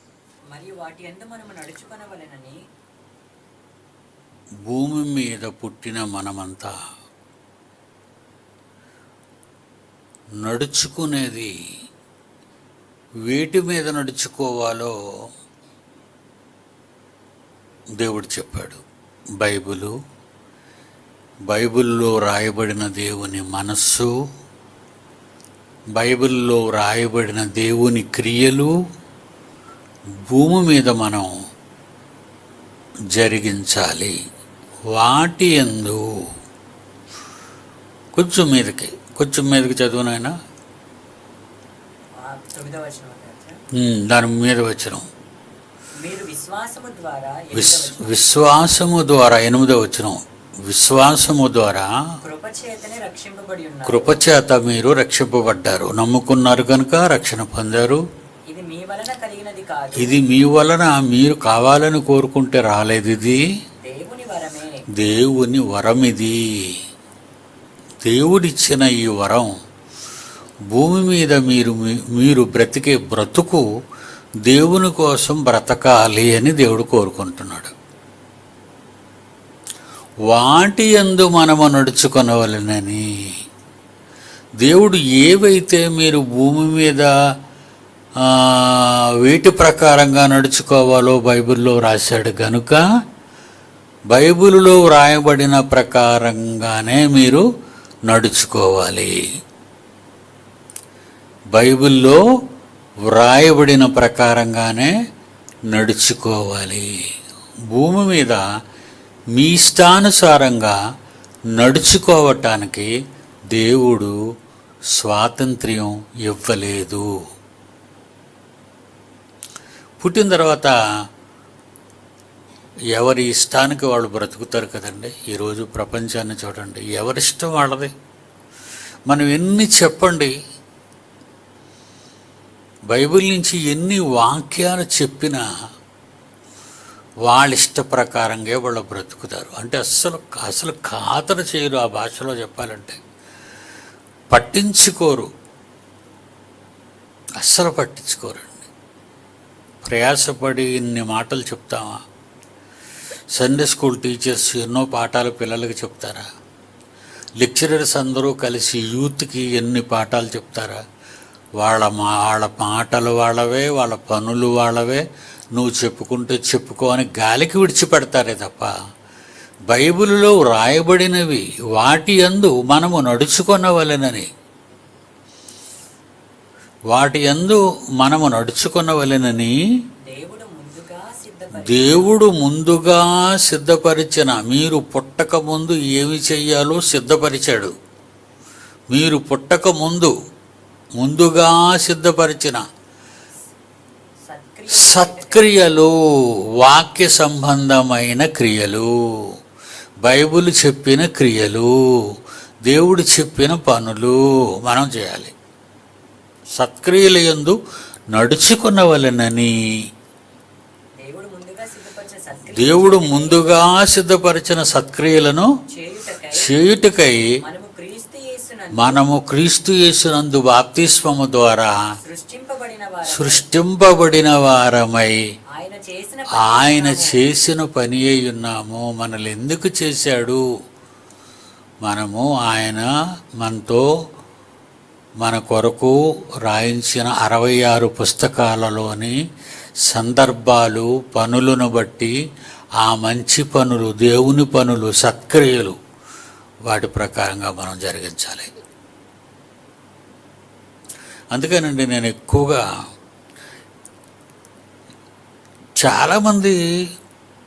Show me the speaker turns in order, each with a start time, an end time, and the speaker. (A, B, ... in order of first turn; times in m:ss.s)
0:00.5-0:02.6 A
0:04.7-0:06.7 B
0:10.4-0:11.5 B
0:13.3-0:14.9 B
0:18.0-0:18.8 B
0:19.4-0:19.9 B
0:21.5-0:24.1 B
0:26.0-0:28.7 B
0:30.3-0:31.3 B
0:33.1-0:34.1 B
0:34.9-0:36.0 B
0:38.1-0:40.3 B
0:42.2-0:43.6 A
0:43.7-0:45.0 B
0:46.0-0:48.3 A
0:47.5-0:51.9 B
0:52.2-0:54.2 A
0:53.9-0:58.0 B
0:58.5-1:00.2 A
1:00.0-1:03.4 B
1:03.8-1:04.7 A
1:05.0-1:06.4 B
1:08.0-1:09.5 B
1:10.7-1:13.6 B
1:14.4-1:17.7 B
1:20.3-1:23.0 B
1:24.6-1:27.1 B
1:28.2-1:32.8 B
1:34.1-1:37.4 B
1:38.1-1:39.1 B
1:41.5-1:42.2 B
1:43.1-1:44.9 B
1:45.7-1:46.9 B
1:47.7-1:48.4 B
1:49.3-1:50.8 B
1:51.6-1:52.9 B
1:53.5-1:54.1 B
1:54.9-1:57.1 B
2:00.0-2:00.7 B
2:02.9-2:07.9 B
2:09.1-2:10.3 B
2:12.9-2:15.4 B
2:17.2-2:23.0 B
2:24.3-2:25.3 B
2:27.4-2:28.7 B
2:29.8-2:32.0 B
2:33.3-2:36.2 B
2:37.4-2:40.8 B
2:41.6-2:45.0 B
2:45.5-2:48.7 B
2:49.7-2:54.3 B
2:56.9-2:59.5 B
3:00.1-3:02.1 A
3:01.5-3:07.7 B
3:08.9-3:10.1 B
3:11.0-3:12.6 B
3:14.2-3:15.5 A
3:14.7-3:15.9 B
3:16.6-3:19.3 B
3:20.0-3:22.1 B
3:22.7-3:25.3 B
3:26.6-3:27.6 B
3:28.1-3:29.5 B
3:31.0-3:33.6 A
3:32.5-3:35.5 B
3:35.7-3:36.5 A
3:36.3-3:37.3 B
3:37.4-3:39.1 A
3:38.8-3:41.7 B
3:42.0-3:43.4 A
3:43.1-3:45.1 B
3:45.6-3:47.2 A
3:46.3-3:50.4 B
3:51.8-3:52.9 B
3:53.4-3:53.8 B
3:55.2-3:59.2 B
3:59.9-4:02.1 B
4:02.8-4:05.8 B
4:06.7-4:08.5 B
4:11.3-4:12.6 B
4:15.8-4:16.6 B